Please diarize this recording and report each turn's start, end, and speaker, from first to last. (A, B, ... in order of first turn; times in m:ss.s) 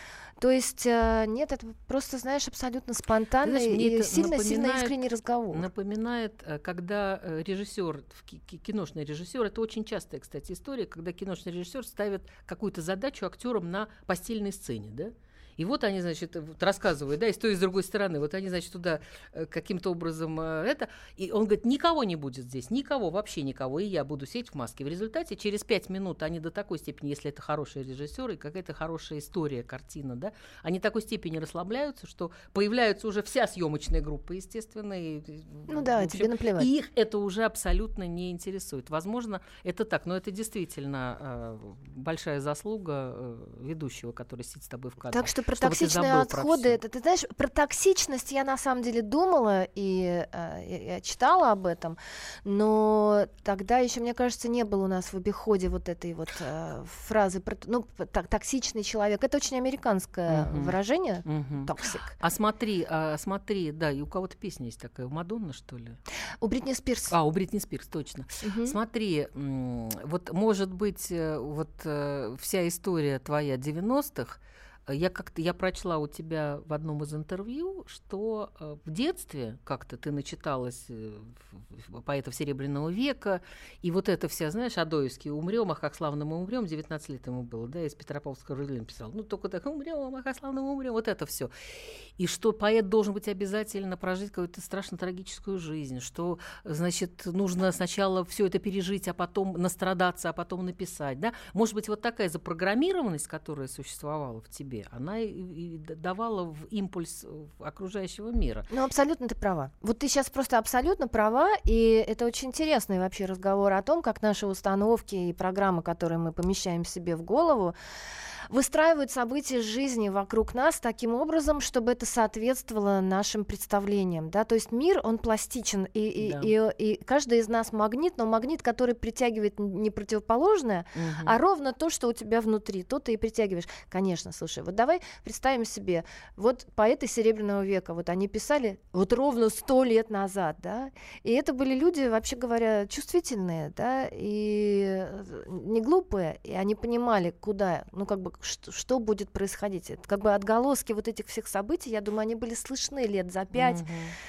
0:00.4-0:05.7 A
0:03.4-0:05.0 B
0:05.5-0:46.8 B
0:35.7-0:36.7 A
0:45.1-1:02.2 A
1:00.3-1:06.0 B
1:06.4-1:07.2 A
1:07.1-1:31.5 B
1:08.4-1:08.8 A
1:32.2-1:48.7 B
1:48.7-1:57.8 A
1:58.5-2:33.8 A
2:06.2-2:06.5 B
2:11.0-2:11.4 B
2:33.5-2:34.2 B